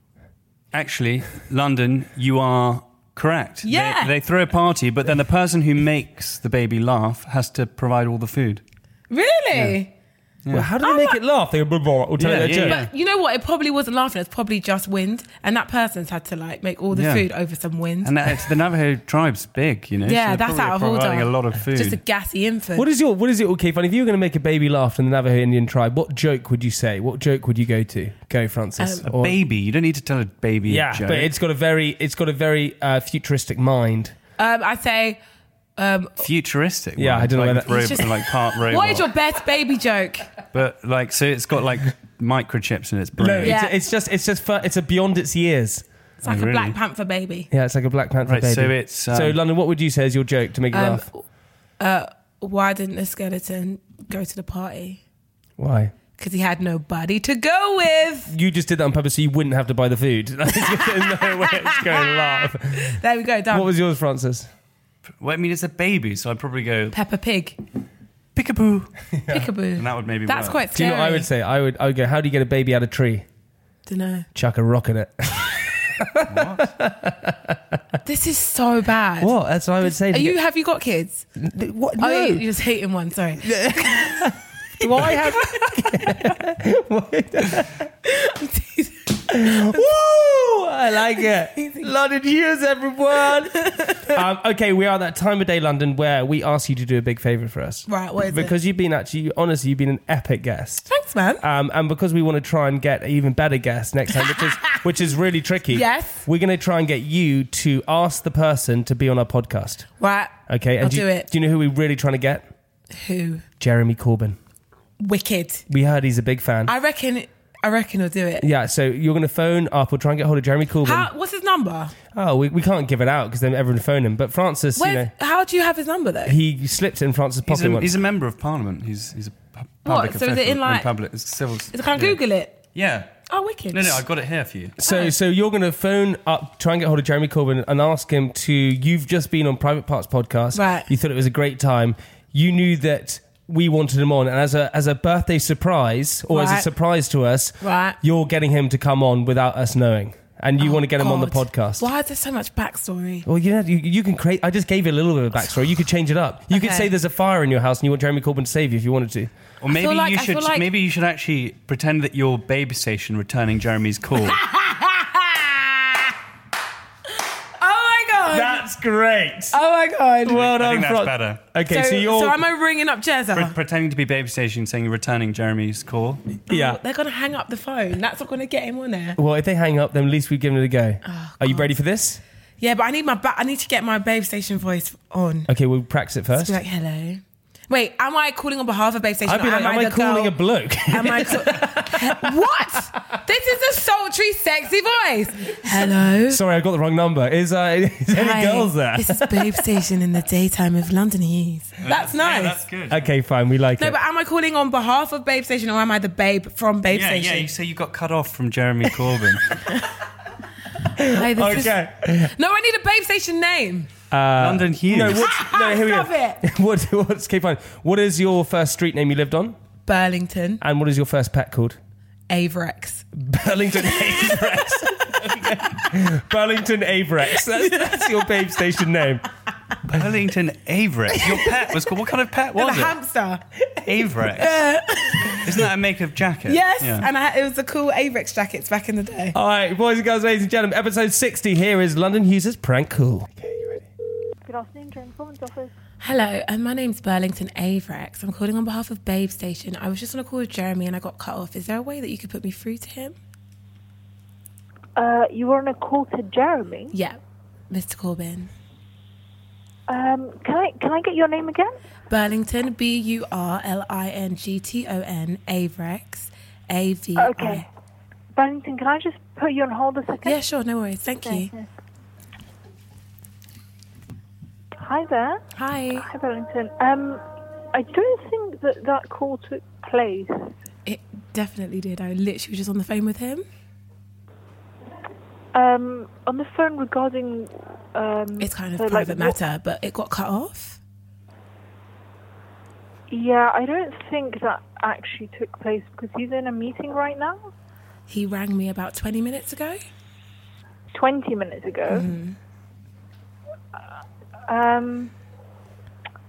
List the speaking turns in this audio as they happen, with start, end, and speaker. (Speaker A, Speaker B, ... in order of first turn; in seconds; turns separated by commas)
Speaker A: 0.7-8.6, Speaker B: 3.6-4.1, Speaker B: 9.1-9.9, Speaker C: 10.5-12.8, Speaker B: 10.8-11.2, Speaker A: 12.2-12.9, Speaker B: 12.6-18.1, Speaker A: 16.9-17.3, Speaker A: 18.0-22.0, Speaker B: 20.1-22.9, Speaker C: 22.8-29.4, Speaker B: 28.8-29.1, Speaker A: 29.1-31.3, Speaker C: 30.7-34.1, Speaker B: 34.4-35.2, Speaker B: 35.8-36.2, Speaker A: 36.2-39.1, Speaker C: 37.0-37.9, Speaker B: 37.7-40.3, Speaker A: 40.5-43.6, Speaker C: 43.2-45.8, Speaker B: 43.4-43.8, Speaker B: 46.2-47.5, Speaker A: 46.2-46.8, Speaker C: 47.5-51.1, Speaker A: 48.3-49.4, Speaker B: 50.7-51.2, Speaker B: 51.8-55.0, Speaker C: 55.6-55.9, Speaker B: 56.2-58.3, Speaker C: 58.3-63.0, Speaker B: 60.6-63.7, Speaker C: 63.5-64.5, Speaker A: 65.2-66.9, Speaker B: 66.9-67.6, Speaker A: 68.3-68.9, Speaker B: 69.3-71.3, Speaker A: 69.7-70.6, Speaker C: 70.7-73.2, Speaker B: 73.8-74.3, Speaker C: 74.3-77.8, Speaker A: 76.3-76.7, Speaker B: 78.0-81.3, Speaker C: 79.2-80.4, Speaker C: 81.4-82.4, Speaker B: 82.0-86.3, Speaker C: 83.4-87.8, Speaker B: 88.0-89.9, Speaker C: 89.3-100.9, Speaker B: 91.2-91.9, Speaker B: 93.6-94.0, Speaker B: 97.9-98.5, Speaker B: 100.9-101.4, Speaker C: 101.4-109.9, Speaker B: 104.2-104.8, Speaker B: 105.7-106.2, Speaker B: 110.0-111.3, Speaker C: 110.5-112.4, Speaker B: 112.9-113.4, Speaker C: 113.6-114.4, Speaker B: 115.0-115.6, Speaker C: 115.7-116.7, Speaker B: 116.7-118.5, Speaker C: 118.4-121.1, Speaker B: 120.8-121.9, Speaker C: 122.1-125.1, Speaker B: 124.8-126.4, Speaker C: 126.2-128.0, Speaker A: 127.5-132.2, Speaker B: 129.8-130.9, Speaker B: 131.7-132.6, Speaker A: 132.7-133.1, Speaker B: 133.3-134.0, Speaker A: 133.7-134.8, Speaker C: 134.8-151.8, Speaker B: 134.8-135.1, Speaker B: 140.5-140.9, Speaker B: 146.3-146.7, Speaker B: 147.6-148.0, Speaker B: 150.6-153.2, Speaker C: 153.2-159.3, Speaker B: 156.5-156.9, Speaker A: 159.6-164.4, Speaker B: 159.7-160.7, Speaker B: 164.2-166.1, Speaker B: 167.6-168.7, Speaker C: 168.3-169.6, Speaker B: 169.5-170.4, Speaker C: 170.2-172.4, Speaker A: 170.3-171.4, Speaker B: 171.7-173.5, Speaker A: 173.3-176.3, Speaker B: 176.5-179.2, Speaker C: 176.5-176.8, Speaker C: 179.2-182.2, Speaker B: 181.0-181.7, Speaker B: 182.6-185.5, Speaker C: 185.5-186.6, Speaker B: 186.3-190.3, Speaker C: 189.2-192.3, Speaker B: 190.9-196.4, Speaker C: 196.3-199.7, Speaker B: 198.1-202.6, Speaker A: 201.8-203.0, Speaker C: 202.9-204.0, Speaker B: 203.8-207.5, Speaker A: 206.9-209.6, Speaker C: 211.0-212.3, Speaker B: 211.0-213.9, Speaker C: 214.1-219.6, Speaker A: 214.4-215.3, Speaker B: 215.1-216.4, Speaker B: 219.8-220.6, Speaker C: 220.6-221.8, Speaker B: 222.3-223.1, Speaker C: 223.2-229.2, Speaker B: 223.9-224.6, Speaker B: 227.5-228.3, Speaker A: 229.9-233.0, Speaker B: 232.5-235.4, Speaker A: 233.8-234.7, Speaker A: 235.3-237.1, Speaker B: 236.5-239.3, Speaker C: 239.3-243.8, Speaker D: 244.4-245.7, Speaker B: 246.0-253.2, Speaker D: 254.9-256.9, Speaker B: 256.9-257.2, Speaker B: 257.7-258.5, Speaker D: 259.9-261.7, Speaker B: 262.1-267.6, Speaker D: 267.1-267.6, Speaker D: 268.3-270.4, Speaker B: 270.2-271.5, Speaker D: 271.2-271.6, Speaker D: 274.8-277.2, Speaker B: 275.5-276.1, Speaker D: 277.7-280.5, Speaker B: 280.9-283.4, Speaker D: 285.5-289.4, Speaker B: 288.4-290.8, Speaker D: 293.1-297.5, Speaker B: 298.1-299.8, Speaker D: 300.9-302.1, Speaker B: 301.9-302.4, Speaker D: 304.5-305.1